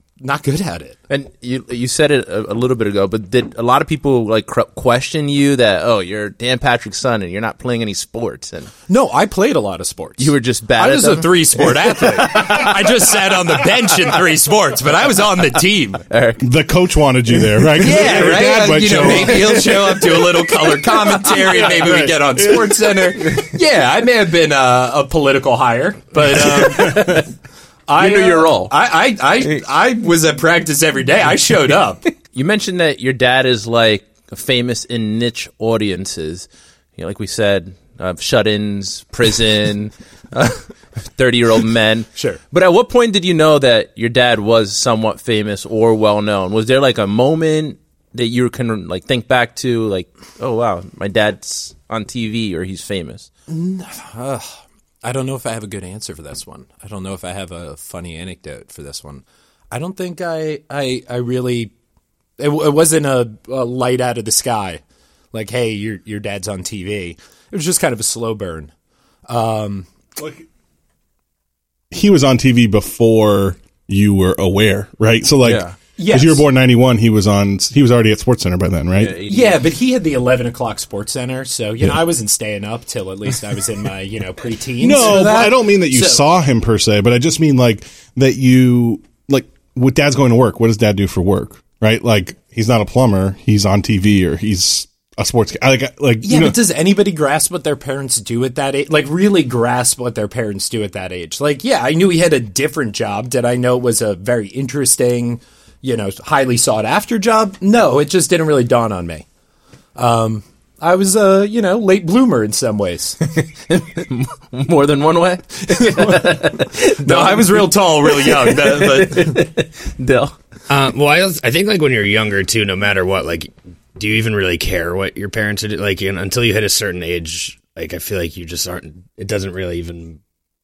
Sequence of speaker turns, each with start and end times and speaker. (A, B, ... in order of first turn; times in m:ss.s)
0:00.2-0:01.0 A
0:01.1-0:08.7 B
0:08.9-0:16.0 A
0:10.2-0:13.8 B
0:16.1-0:16.4 B
0:16.4-0:20.1 C
0:17.8-0:27.2 A
0:19.0-0:19.4 B
0:21.2-0:22.7 C
0:26.3-0:27.3 B
0:27.9-0:32.0 A
0:28.0-0:28.7 B
0:32.3-0:53.3 B
0:53.5-1:01.7 A
1:02.4-1:04.8 A
1:05.3-1:08.7 A
1:09.3-1:09.9 A
1:10.2-1:10.4 C
1:11.9-1:19.2 C
1:15.4-1:15.8 B
1:16.0-1:16.4 A
1:19.0-1:19.6 B
1:19.3-1:26.2 A
1:24.8-1:36.6 C
1:36.2-1:49.2 A
1:50.0-1:53.2 A
1:53.4-2:00.4 B
1:55.8-1:56.2 A
1:57.0-1:59.5 A
2:00.7-2:10.2 D